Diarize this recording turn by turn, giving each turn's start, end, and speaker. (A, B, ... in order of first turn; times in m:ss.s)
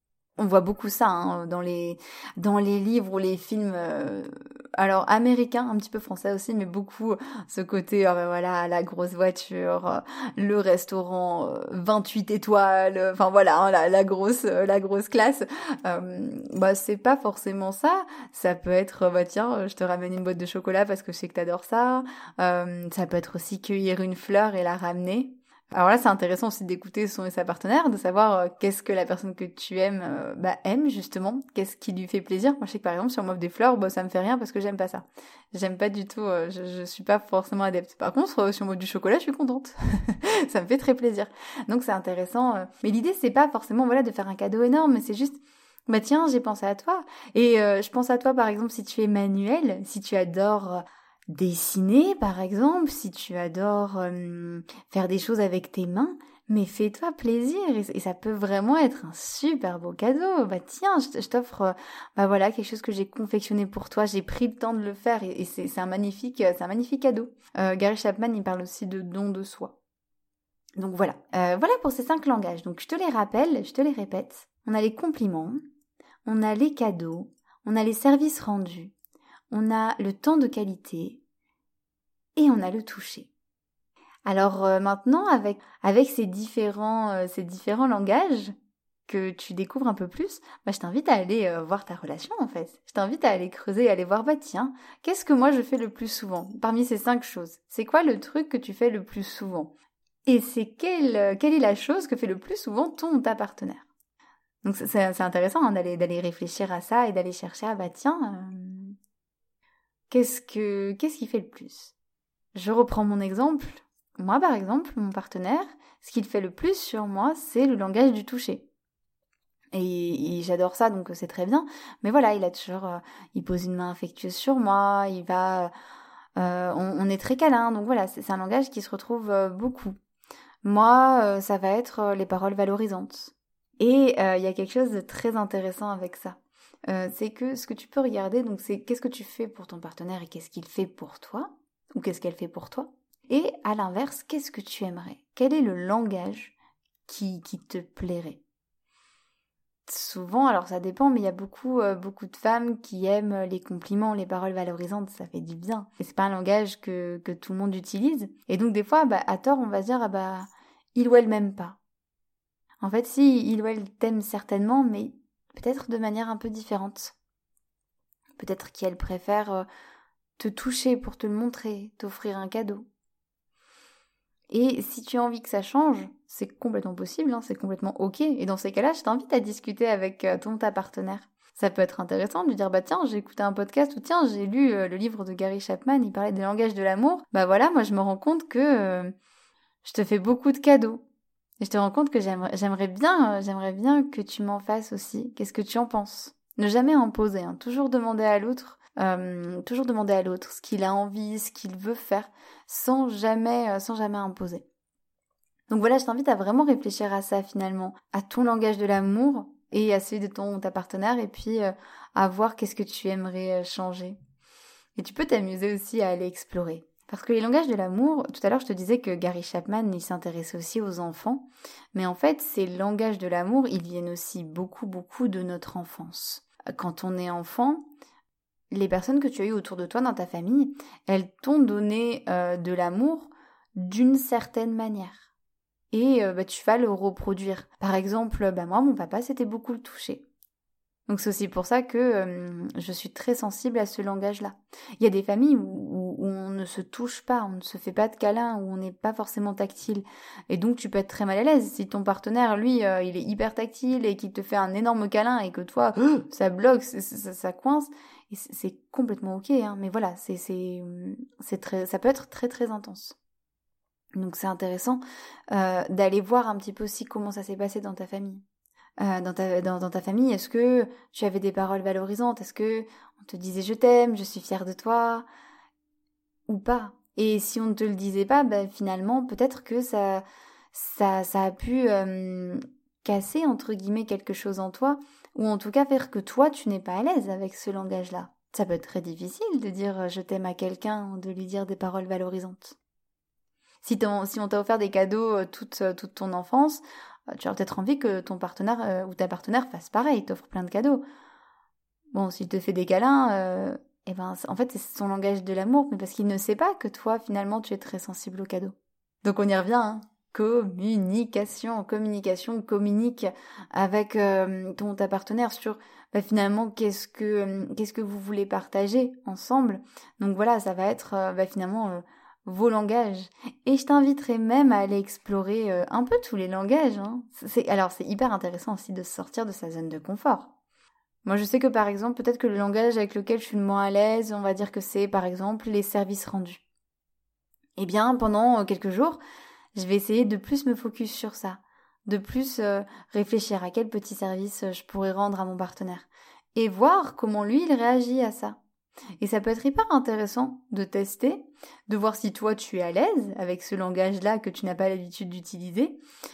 0:00.4-1:09.8 A
1:10.8-1:15.6 A
1:16.2-1:18.9 A
1:19.5-1:21.2 A
1:22.4-1:23.3 A
1:24.3-1:28.5 A
1:29.1-1:39.7 A
1:40.3-1:43.9 A
1:44.6-1:49.0 A
1:50.1-1:51.9 A
1:52.6-1:58.7 A
1:59.7-2:05.7 A
2:06.4-2:10.0 A
2:10.6-2:26.6 A
2:27.1-2:28.4 A
2:29.9-2:41.8 A
2:42.8-2:47.2 A
2:48.4-2:49.7 A
2:50.4-2:52.9 A
2:54.5-3:09.1 A
3:09.8-3:11.0 A
3:11.6-3:24.6 A
3:25.7-3:34.2 A
3:35.0-3:47.9 A
3:48.7-3:55.3 A
3:55.9-4:00.2 A
4:01.1-4:23.2 A
4:24.2-4:25.0 A
4:25.5-4:28.4 A
4:29.0-4:35.3 A
4:36.5-4:52.8 A
4:53.8-5:01.0 A
5:02.1-5:30.5 A
5:31.2-5:36.6 A
5:37.8-5:39.2 A
5:39.8-5:48.6 A
5:49.2-5:56.0 A